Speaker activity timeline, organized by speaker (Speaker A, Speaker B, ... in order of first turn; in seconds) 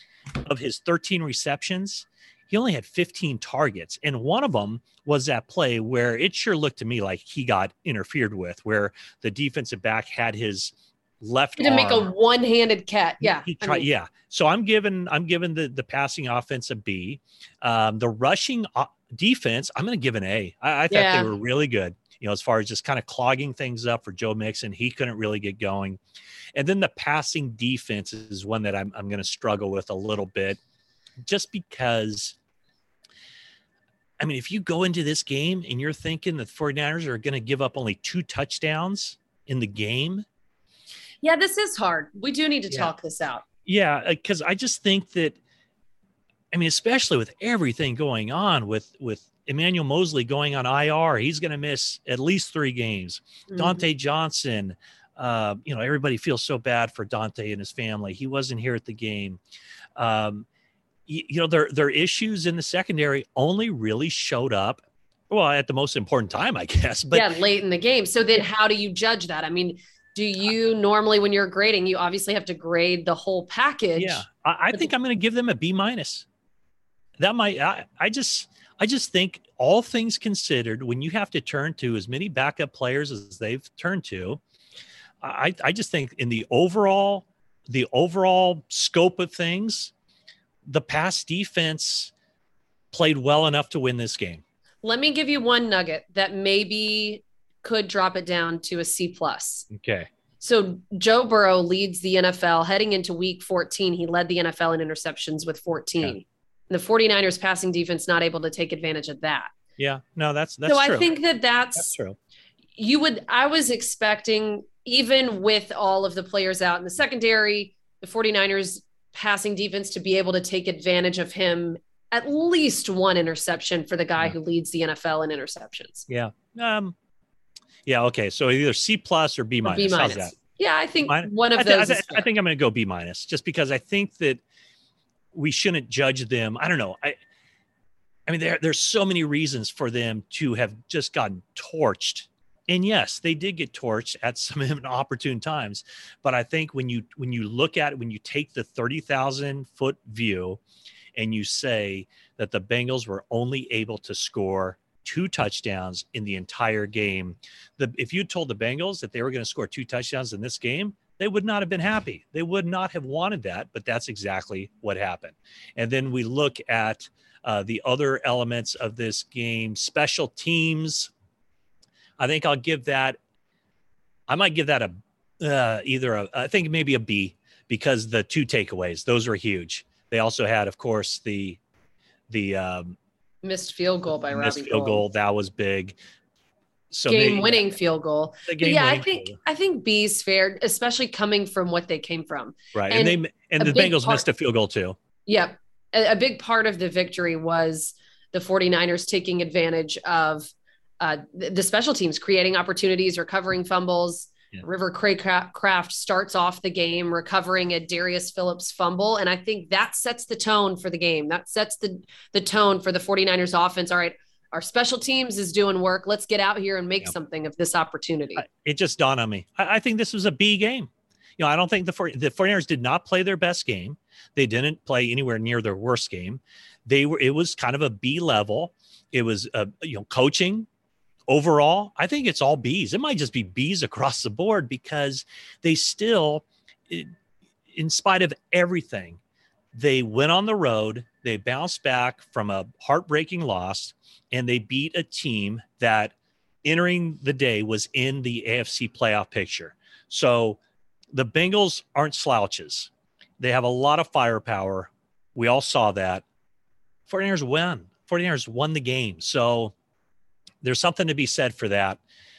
Speaker A: 0.4-12.1, 13.2-26.0, 26.5-30.6, 31.2-32.4, 34.2-40.2, 43.6-45.4, 46.5-59.4, 60.0-60.5, 61.1-67.3, 73.9-76.2, 77.2-84.4, 85.2-89.9, 90.7-92.1, 92.9-94.4, 99.7-100.1, 109.8-111.1, 111.8-112.2, 126.1-126.9, 127.8-130.3, 131.1-134.4, 135.3-137.2, 138.3-150.6, 151.1-171.1, 172.2-173.2, 174.3-181.6, 182.3-183.0, 184.3-186.0, 186.9-187.7, 188.4-189.4, 192.7-195.0, 218.4-230.7, 231.3-237.1, 237.7-239.2, 239.7-250.6, 251.1-256.2, 257.1-259.7, 260.6-262.0
Speaker B: 11.6-13.9, 20.9-21.3, 41.2-43.4, 53.5-53.8, 67.1-74.9, 94.8-99.6, 100.4-109.5, 110.6-111.9, 112.8-126.1, 129.6-132.2, 183.4-185.0, 187.1-194.2, 195.2-218.4